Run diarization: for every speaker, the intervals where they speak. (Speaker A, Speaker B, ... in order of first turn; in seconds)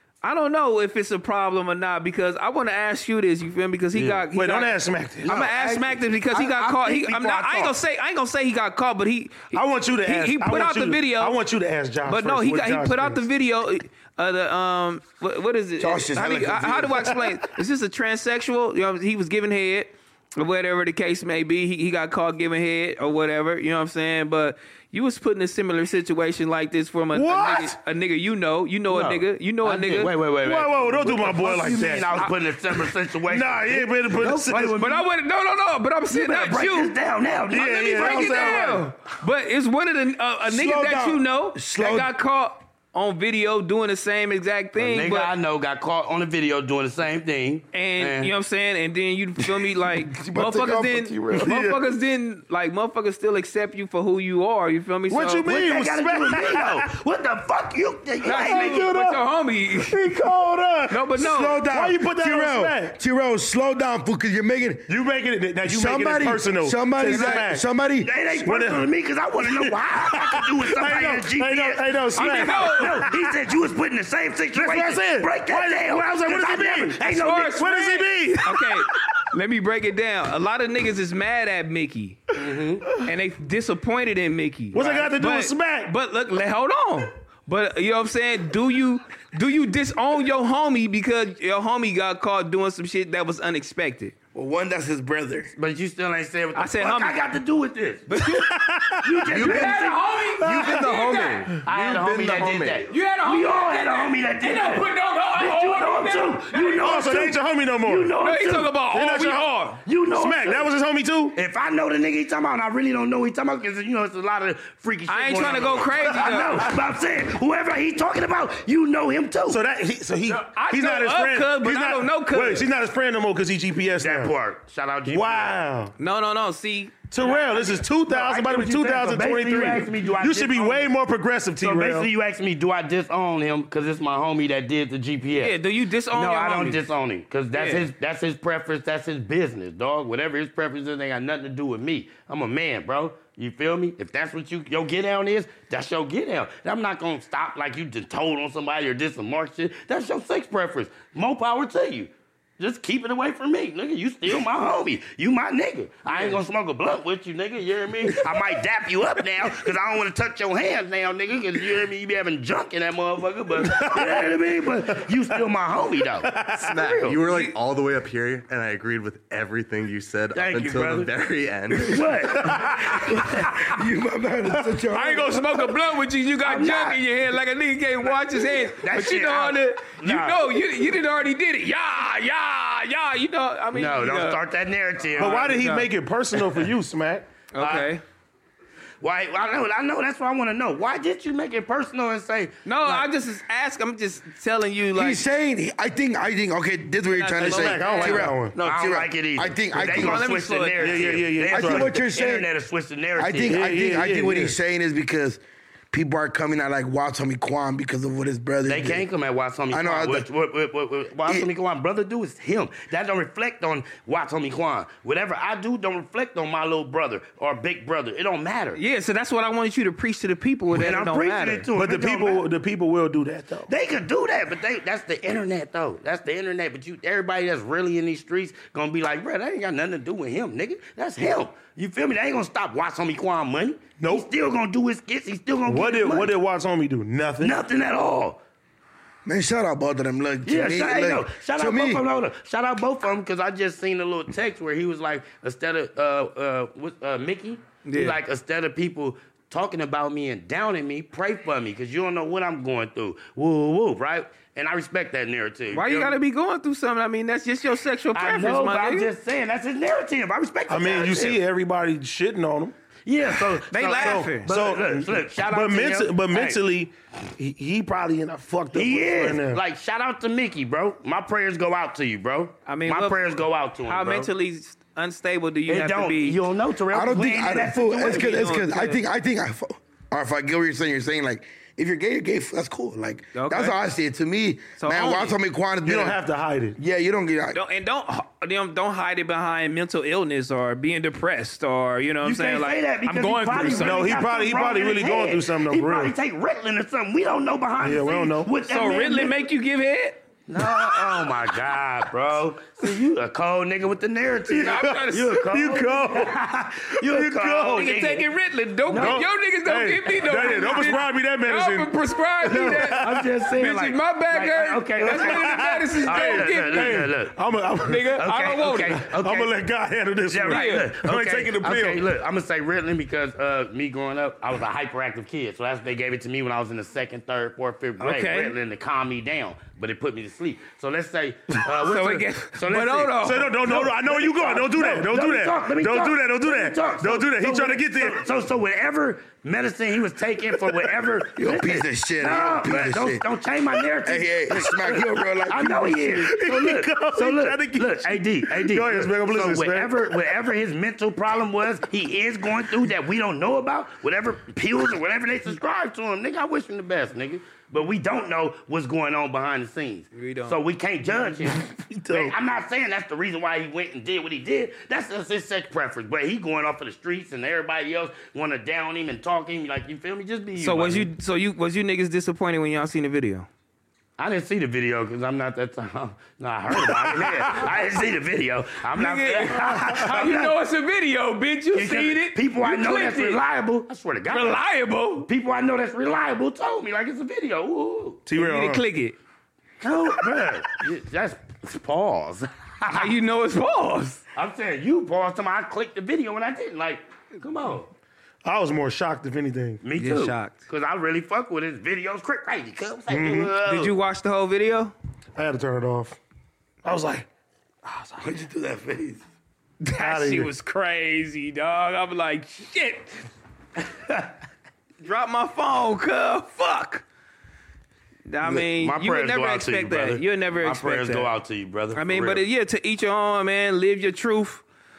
Speaker A: 0.2-11.4, 12.1-30.1, 34.8-36.9, 38.0-45.3, 47.7-55.5, 58.2-60.1, 60.9-61.6, 72.2-73.1, 77.0-82.2, 83.0-94.1, 96.6-97.2, 98.1-98.5, 99.3-101.5, 102.9-106.9, 108.2-109.8, 115.1-116.7, 120.4-122.7, 126.0-127.8, 135.3-136.8, 137.5-137.9, 174.9-184.4, 185.2-185.9, 187.5-188.0, 192.7-195.2, 197.1-198.3, 199.8-201.2, 218.8-221.7, 247.9-248.2, 255.7-259.1, 263.7-264.5, 272.7-273.2, 273.9-276.4, 277.9-279.0, 283.3-283.8, 284.8-285.4, 287.5-294.1, 298.7-300.2, 304.6-305.4, 307.7-317.1, 317.8-319.0, 320.5-320.9, 328.0-328.6, 331.8-333.6, 360.1-360.6, 370.6-373.5, 376.8-377.7, 378.9-383.4, 384.3-385.3, 388.4-389.2, 392.9-394.2, 400.0-400.6, 403.6-404.9, 409.8-413.3, 415.0-417.0, 418.3-421.3, 421.9-424.6
Speaker B: 4.0-4.3, 5.2-7.8, 28.9-35.0, 36.1-38.8, 44.8-48.3, 55.5-58.9, 67.0-67.5, 68.0-77.6, 82.3-82.9, 95.6-98.1, 99.0-100.2, 101.6-108.8, 109.9-110.7, 111.3-119.6, 124.0-125.6, 128.1-130.9, 131.6-135.6, 136.1-167.3, 170.3-171.1, 171.8-173.3, 176.4-177.1, 178.0-180.6, 183.7-185.8, 187.6-187.9, 189.0-193.1, 198.6-203.6, 208.7-218.8, 220.7-222.5, 223.7-236.3, 237.4-238.4, 240.4-256.2, 258.1-261.4, 263.1-266.6, 268.7-274.3, 275.7-278.4, 292.2-299.3, 300.5-308.3, 308.9-309.3, 312.5-317.4, 318.2-319.5, 320.3-371.1, 374.2-380.6, 381.7-384.6, 385.2-388.2, 389.8-393.1, 394.4-397.9, 399.8-403.9, 418.4-422.4
Speaker C: 4.3-5.3, 9.5-13.2, 27.1-27.8, 30.4-32.2, 33.3-34.8, 37.5-38.8, 51.4-51.8, 55.1-56.9, 58.2-59.2, 59.9-61.0, 61.6-63.0, 64.9-67.7, 68.4-68.9, 69.4-73.3, 74.5-79.2, 84.7-85.9, 98.2-99.8, 100.4-101.0, 106.8-108.2, 108.9-109.5, 110.1-111.4, 116.3-116.7, 119.5-124.3, 125.1-125.9, 127.1-132.1, 163.6-164.3, 166.2-166.6, 172.4-173.0, 185.2-187.3, 197.4-198.5, 200.8-201.9, 203.5-204.6, 221.8-223.7, 234.0-234.3, 235.7-237.6, 260.7-262.8, 263.9-269.6, 285.8-286.8, 293.6-296.1, 297.8-298.5, 304.5-307.9, 309.0-313.3, 315.0-318.2, 319.1-322.1, 333.2-338.2, 340.6-340.9, 346.0-350.2, 361.6-362.3, 388.3-388.8, 398.4-399.8, 403.1-403.5, 405.4-406.2, 406.8-407.3, 407.9-408.3, 410.0-410.5
Speaker D: 15.8-17.2, 40.5-42.1, 49.8-51.6, 58.5-58.8, 60.0-64.9, 65.6-68.2, 94.3-95.5, 173.0-175.7, 194.9-200.2, 201.5-202.5, 203.2-209.1, 209.7-210.3, 239.2-242.0, 276.9-286.2, 286.8-287.6, 341.4-343.2, 344.1-346.0, 408.2-409.2
Speaker E: 99.3-99.7, 100.4-102.9, 166.6-172.4